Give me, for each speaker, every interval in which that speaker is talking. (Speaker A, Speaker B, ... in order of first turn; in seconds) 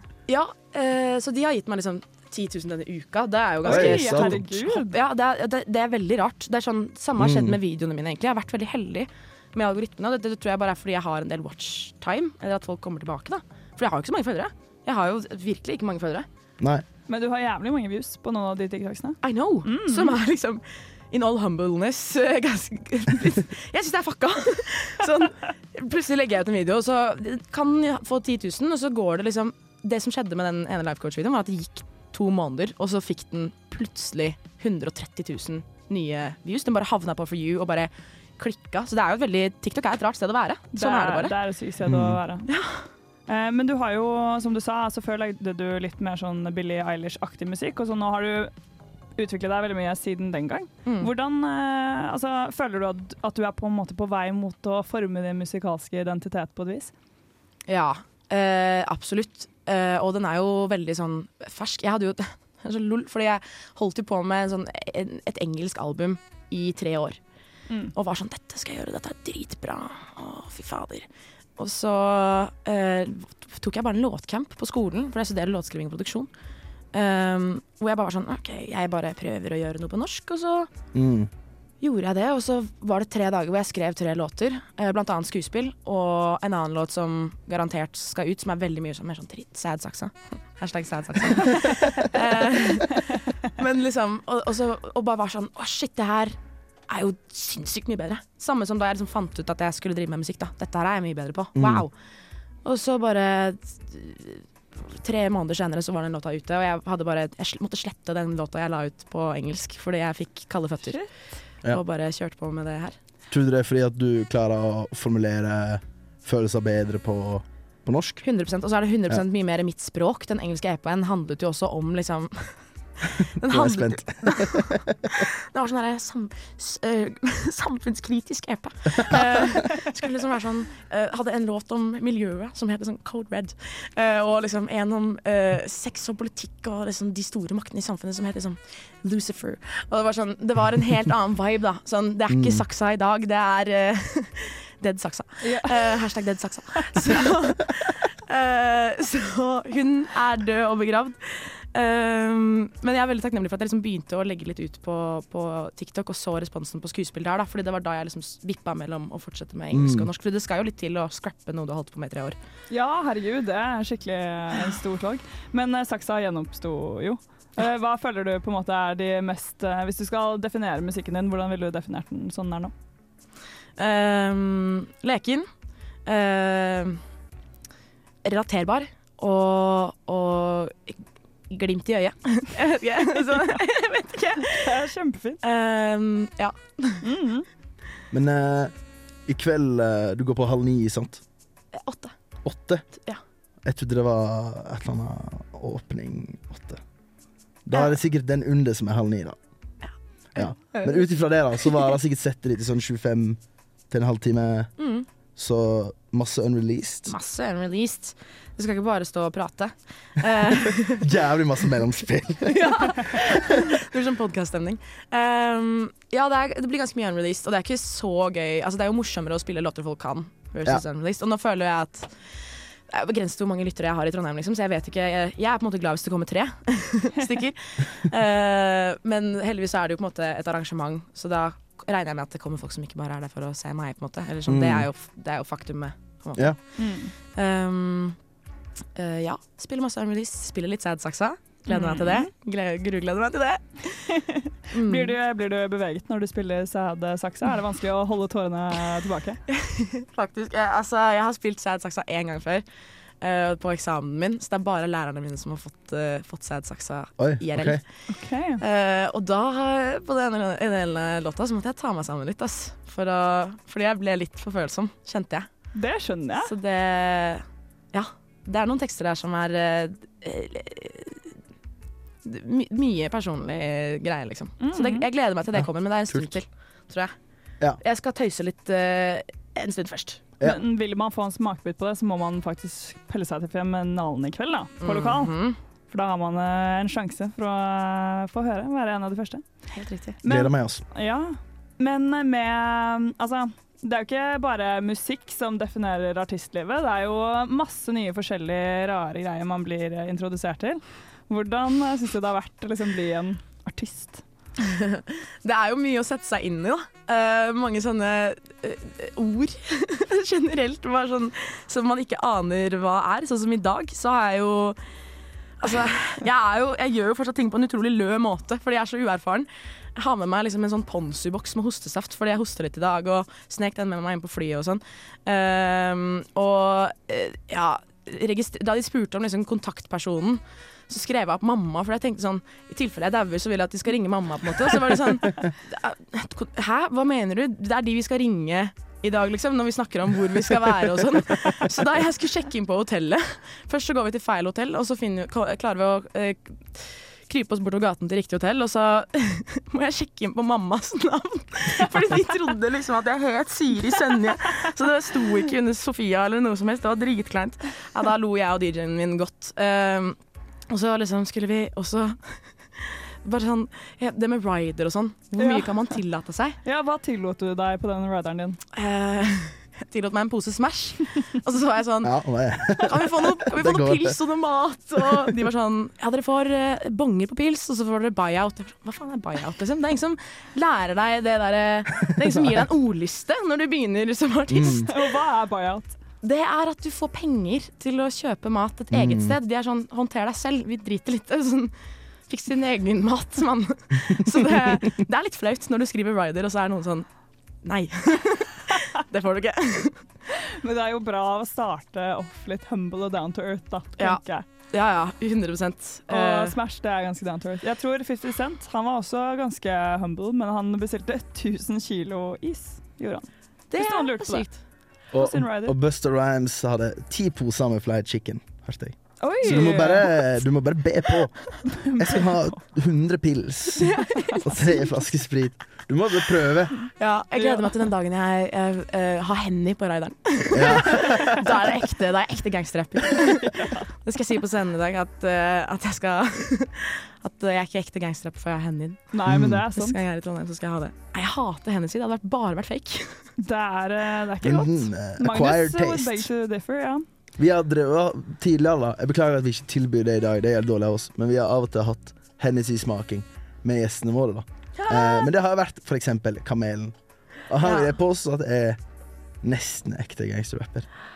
Speaker A: 0.2-16.2, 19.2-41.4, 42.5-42.9, 50.8-51.1, 57.7-67.2, 67.9-76.3, 76.9-80.7, 81.8-101.9, 102.6-111.0, 111.7-113.0, 118.2-122.6, 123.2-162.4, 173.8-175.4, 176.1-177.0, 178.2-184.7, 185.4-187.1, 191.7-192.2, 192.9-193.2, 197.7-198.0, 199.8-201.1, 201.6-201.9, 204.8-205.1, 207.1-211.1, 212.5-238.2, 238.9-243.9, 244.7-245.2, 249.5-252.7, 253.2-257.9, 258.6-265.5, 266.4-271.3, 272.2-277.1, 277.8-280.2, 284.8-285.6, 289.7-290.2, 304.6-314.8, 315.6-366.6, 368.7-384.9, 386.2-391.7, 392.3-397.1, 397.6-400.1, 404.0-406.6, 413.7-414.6, 423.8-424.6, 426.9-443.3, 454.7-455.3, 457.6-457.9
Speaker B: 3.6-5.0, 17.1-20.2, 40.7-42.5, 43.3-48.5, 49.2-56.9, 145.4-146.1, 162.7-172.7, 184.5-185.4, 187.0-187.5, 236.8-237.1, 241.7-242.3, 244.1-249.4, 258.1-258.6, 265.7-266.5, 274.6-275.1, 280.4-289.4, 290.2-304.2, 365.4-365.9, 366.6-368.6, 384.6-385.9, 400.4-404.4, 406.1-415.7, 419.2-420.4, 421.8-422.6, 427.3-427.8, 433.3-433.9, 439.1-440.0, 443.4-447.0
Speaker C: 3.7-4.5, 7.2-7.6, 16.6-16.8, 41.8-42.2, 80.9-81.3, 101.5-101.9, 113.3-118.2, 123.4-125.2, 142.3-142.6, 159.7-160.1, 188.1-188.7, 189.3-191.2, 192.4-192.8, 193.6-196.8, 197.7-199.3, 200.3-204.7, 205.3-207.1, 210.9-213.6, 234.5-234.9, 257.2-257.8, 275.5-276.4, 290.2-290.8, 372.0-374.2, 384.5-384.9, 388.9-389.4, 415.1-426.8, 430.5-431.5, 439.2-439.6, 444.4-446.3, 447.4-456.9, 457.4-458.8, 459.4-460.9